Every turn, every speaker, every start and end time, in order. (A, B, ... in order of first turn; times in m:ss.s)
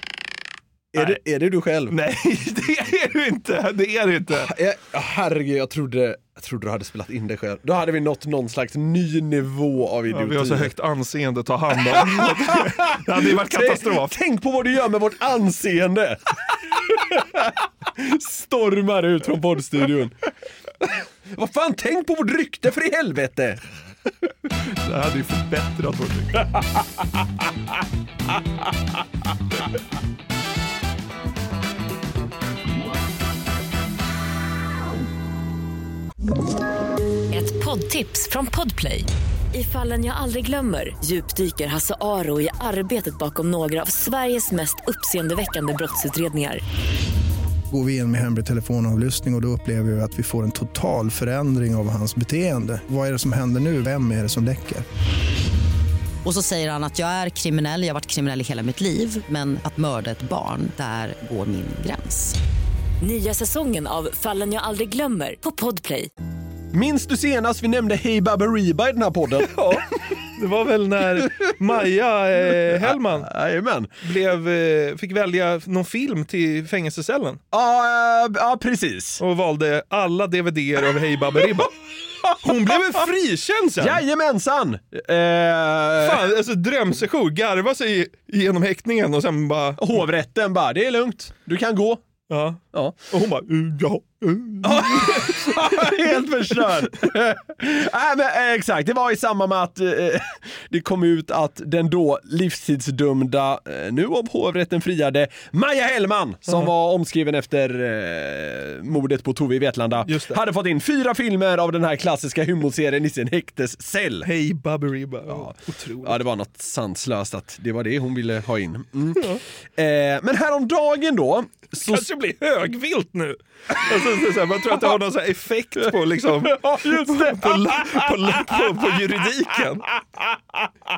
0:00.9-0:02.0 A
0:01.9-0:04.5 B
0:04.3-0:10.7 A
0:10.1-0:14.2 B
0:11.8-0:20.1 A
0:21.3-0:23.6 A
0:24.7-0:26.5 B
0:37.3-0:46.6 C
0:47.7-0:54.8 D
0:56.2-1:02.4 E
1:03.0-1:06.1 C
1:06.7-1:09.6 A
1:09.4-1:13.3 B
1:12.6-1:13.9 A
1:14.0-1:17.4 B
1:17.5-1:19.2 A
1:19.2-1:21.7 B
1:22.4-1:24.0 B
1:23.8-1:26.2 A
1:26.0-1:30.0 B
1:29.8-1:32.0 A
1:32.3-1:35.5 B
1:34.6-1:54.3 A
1:50.0-1:50.4 B
1:54.2-1:56.2 B
1:55.3-2:02.1 A
2:01.8-2:09.9 B
2:06.4-2:09.1 A
2:10.2-2:10.7 A